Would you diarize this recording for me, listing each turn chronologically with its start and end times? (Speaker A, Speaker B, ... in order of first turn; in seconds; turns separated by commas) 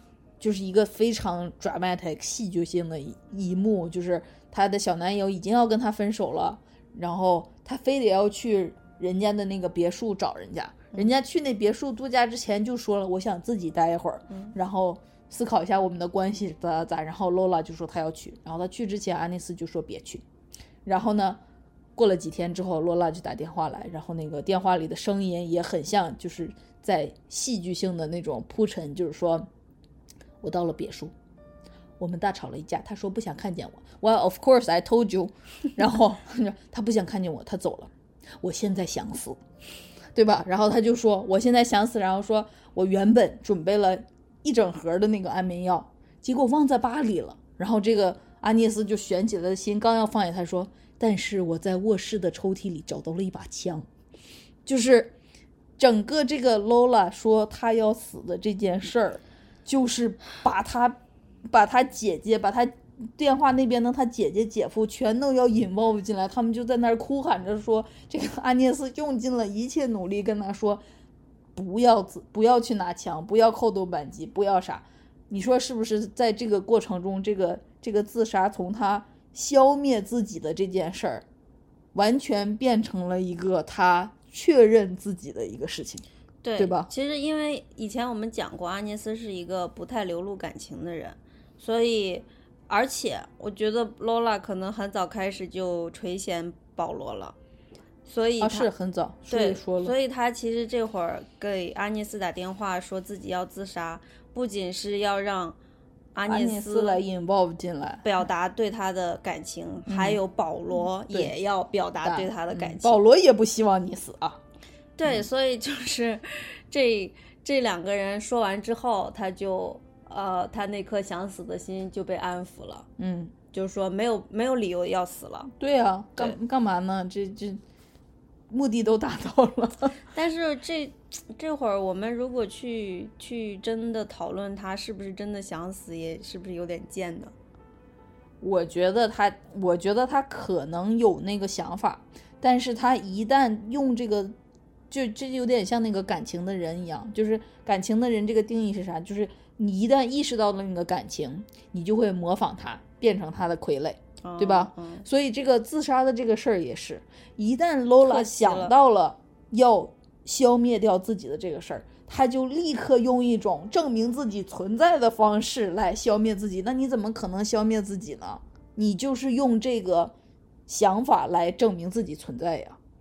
Speaker A: 0.4-20.2, Speaker A: 20.9-21.4, Speaker A: 21.9-29.5, Speaker A: 30.4-31.1, Speaker A: 32.0-39.4, Speaker A: 40.1-53.9, Speaker A: 54.7-55.1, Speaker A: 55.8-70.8, Speaker A: 71.5-81.2, Speaker A: 81.9-86.0, Speaker B: 86.4-97.3, Speaker A: 86.6-86.9, Speaker B: 98.0-98.7, Speaker A: 98.4-99.9, Speaker B: 99.3-105.6, Speaker B: 106.2-107.0, Speaker A: 106.3-108.2, Speaker B: 108.0-113.0, Speaker A: 109.9-110.2, Speaker A: 111.1-111.3, Speaker A: 112.0-114.4, Speaker B: 115.0-122.9, Speaker A: 123.0-123.3, Speaker B: 123.5-125.5, Speaker A: 125.6-127.6, Speaker A: 128.5-130.0, Speaker B: 130.1-137.3, Speaker A: 138.4-144.3, Speaker A: 144.9-170.1, Speaker B: 154.2-155.1, Speaker B: 158.0-158.7, Speaker A: 170.7-172.8